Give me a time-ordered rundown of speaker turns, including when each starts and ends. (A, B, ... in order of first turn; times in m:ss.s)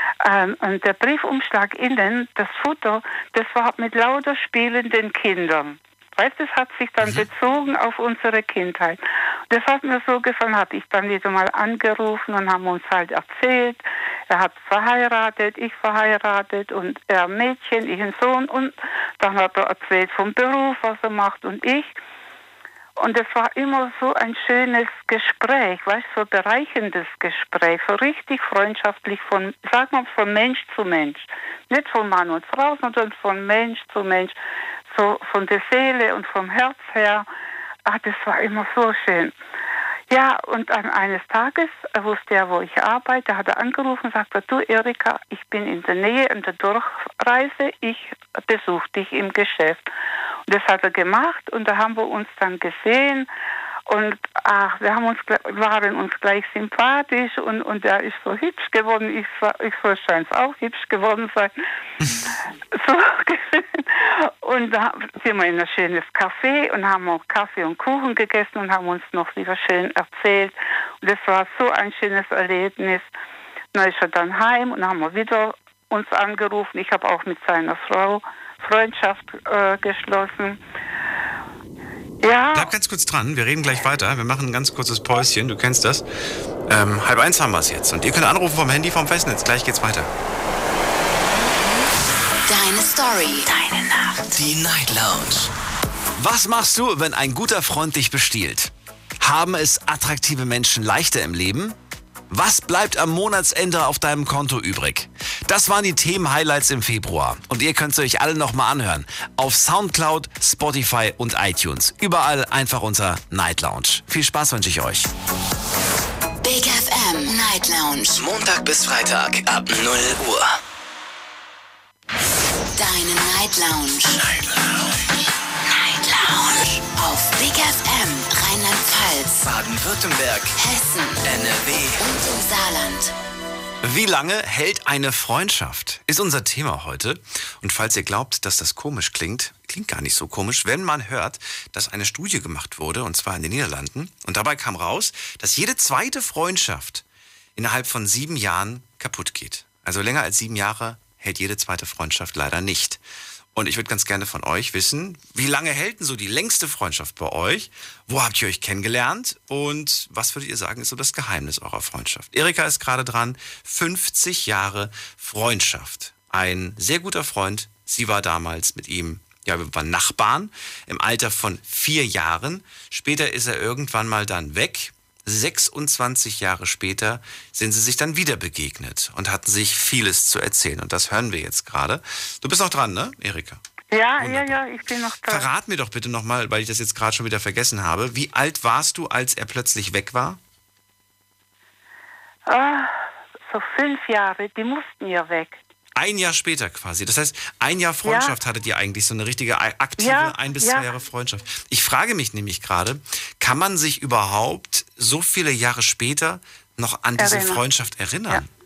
0:00.2-0:21.9 A
0:07.0-0:07.3 B
0:23.0-0:34.4 A
0:34.9-0:37.3 A
0:37.8-0:39.3 A
0:40.1-0:49.9 A
0:50.5-0:53.3 A
0:53.9-1:01.5 A
1:02.7-1:13.1 A
1:13.7-1:20.6 A
1:22.2-1:22.7 A
1:22.5-1:26.0 B
1:26.7-1:30.1 B
1:32.5-1:34.3 C
1:34.3-1:35.5 D
1:36.1-1:41.8 B
1:42.3-1:55.1 B
1:56.4-1:58.2 C
1:58.1-2:00.5 D
2:02.7-2:04.2 C
2:04.2-2:04.9 D
2:05.7-2:09.4 C
2:09.4-2:10.5 D
2:10.6-2:13.1 C
2:11.3-2:12.0 D
2:13.8-2:27.0 B
2:27.6-2:33.0 B
2:33.5-3:03.6 B
3:03.9-3:05.5 A
3:04.2-3:04.6 B
3:05.2-3:10.4 B
3:12.5-3:13.0 A
3:13.5-3:15.6 A
3:16.0-3:28.5 B
3:18.0-3:18.4 A
3:20.0-3:20.9 A
3:27.2-3:27.6 A